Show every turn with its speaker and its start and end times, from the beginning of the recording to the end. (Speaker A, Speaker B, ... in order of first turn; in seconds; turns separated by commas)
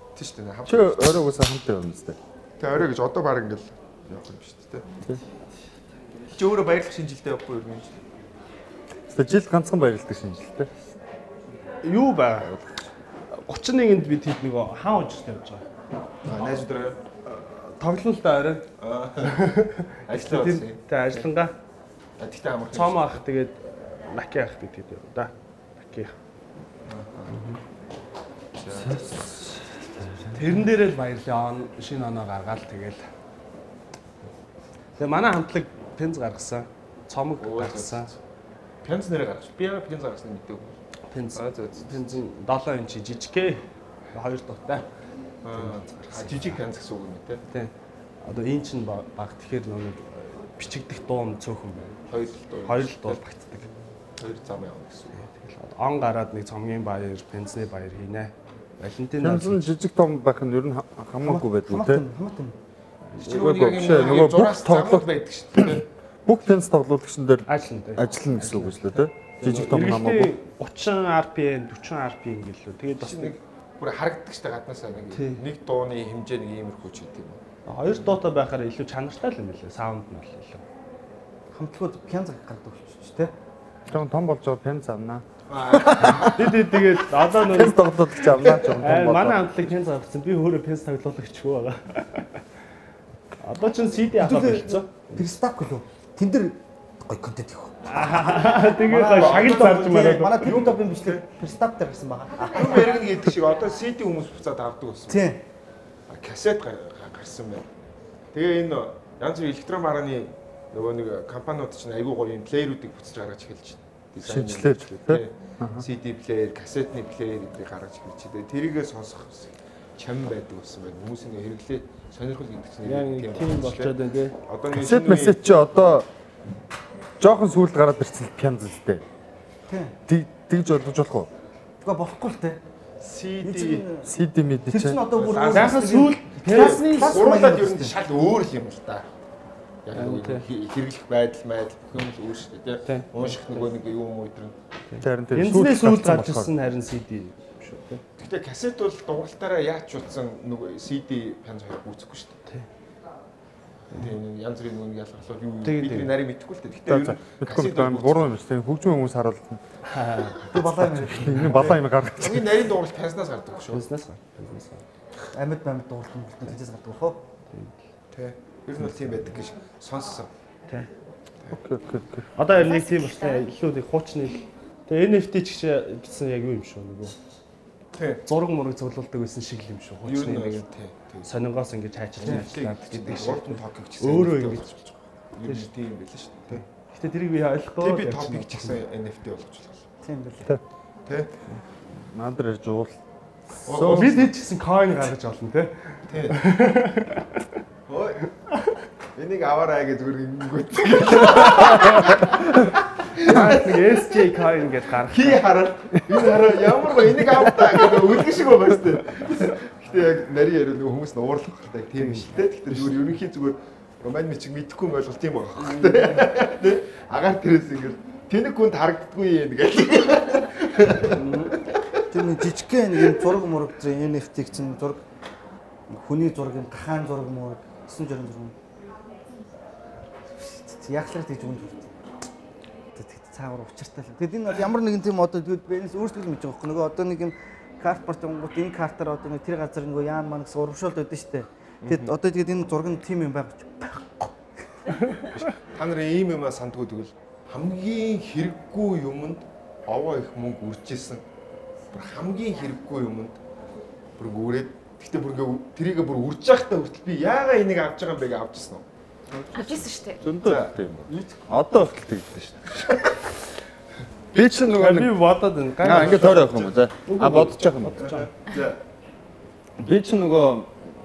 Speaker A: 0.1-1.2, Speaker B: 0.7-2.2, Speaker A: 2.6-4.8, Speaker A: 6.3-8.0, Speaker B: 9.1-10.8, Speaker C: 11.8-12.5, Speaker B: 12.4-12.7, Speaker C: 13.3-15.6, Speaker A: 16.2-17.0, Speaker C: 17.3-21.5, Speaker A: 18.8-19.4, Speaker A: 20.1-21.2, Speaker A: 22.2-23.1, Speaker C: 22.7-26.1, Speaker A: 26.9-27.4, Speaker C: 27.3-27.6, Speaker A: 28.6-29.0, Speaker B: 28.7-30.7, Speaker C: 30.3-33.1, Speaker C: 35.0-38.1, Speaker A: 37.4-38.1, Speaker A: 38.8-40.8, Speaker C: 41.1-44.9, Speaker A: 41.3-42.2, Speaker A: 45.4-47.4, Speaker C: 45.5-46.6, Speaker C: 47.5-52.0, Speaker A: 52.1-53.2, Speaker C: 52.6-53.7, Speaker A: 54.2-55.2, Speaker C: 55.1-59.7, Speaker B: 59.2-62.0, Speaker D: 61.2-62.5, Speaker C: 63.1-63.9, Speaker B: 63.2-70.3, Speaker A: 63.2-65.9, Speaker C: 67.5-73.3, Speaker A: 73.0-78.0, Speaker C: 75.1-75.4, Speaker C: 77.7-80.6, Speaker D: 81.5-83.3, Speaker B: 83.9-86.7, Speaker A: 85.5-86.4, Speaker C: 86.2-92.2, Speaker B: 87.3-89.6, Speaker C: 93.4-94.9, Speaker D: 94.2-98.2, Speaker C: 97.8-100.5, Speaker D: 98.7-103.0, Speaker A: 99.0-101.2, Speaker E: 102.3-103.6, Speaker A: 102.5-105.3, Speaker D: 105.1-105.4, Speaker A: 106.1-107.7, Speaker A: 108.3-123.9, Speaker B: 114.2-115.8, Speaker C: 122.8-124.3, Speaker A: 124.5-125.7, Speaker B: 124.7-126.1, Speaker B: 127.2-129.0, Speaker D: 129.7-129.9, Speaker B: 130.1-131.3, Speaker D: 131.8-132.6, Speaker A: 133.0-133.8, Speaker D: 133.4-134.1, Speaker B: 134.1-135.1, Speaker D: 134.7-137.9, Speaker A: 135.1-139.1, Speaker C: 135.5-137.3, Speaker A: 139.8-144.6, Speaker C: 139.9-140.5, Speaker C: 142.8-143.4, Speaker C: 144.9-148.0, Speaker B: 145.0-146.5, Speaker A: 148.2-152.4, Speaker A: 153.9-158.3, Speaker C: 153.9-154.2, Speaker C: 155.6-156.2, Speaker B: 156.9-159.6, Speaker C: 159.9-161.6, Speaker D: 160.5-161.8, Speaker B: 160.9-162.5, Speaker A: 162.1-163.8, Speaker C: 163.7-164.8, Speaker D: 165.3-167.2, Speaker C: 167.5-167.8, Speaker A: 168.1-170.3, Speaker B: 171.5-172.3, Speaker C: 172.3-177.2, Speaker E: 172.5-173.5, Speaker A: 177.9-178.2, Speaker C: 178.3-180.6, Speaker A: 180.0-181.3, Speaker C: 181.2-185.7, Speaker A: 182.2-184.8, Speaker A: 185.3-186.6, Speaker C: 186.5-188.8, Speaker A: 187.8-189.9, Speaker D: 190.0-190.6, Speaker A: 191.1-191.3, Speaker B: 191.9-192.9, Speaker B: 193.6-194.3, Speaker A: 193.7-194.3, Speaker C: 193.7-197.4, Speaker A: 196.1-196.4, Speaker A: 197.9-198.3, Speaker A: 199.1-204.2, Speaker C: 203.2-205.4, Speaker A: 205.1-221.8, Speaker C: 212.0-212.9, Speaker C: 215.6-216.2, Speaker C: 221.1-221.5, Speaker D: 222.1-225.0, Speaker D: 225.9-228.5, Speaker D: 230.4-232.0, Speaker D: 232.9-244.9, Speaker A: 241.8-242.1, Speaker A: 245.3-251.2, Speaker A: 251.9-253.4, Speaker A: 254.2-259.6, Speaker E: 259.5-260.3, Speaker B: 260.2-263.3, Speaker A: 260.4-260.8, Speaker D: 261.1-261.9, Speaker B: 264.3-265.2, Speaker C: 264.8-268.3, Speaker B: 265.8-268.1, Speaker A: 265.8-266.8, Speaker A: 268.0-268.8, Speaker B: 269.8-270.7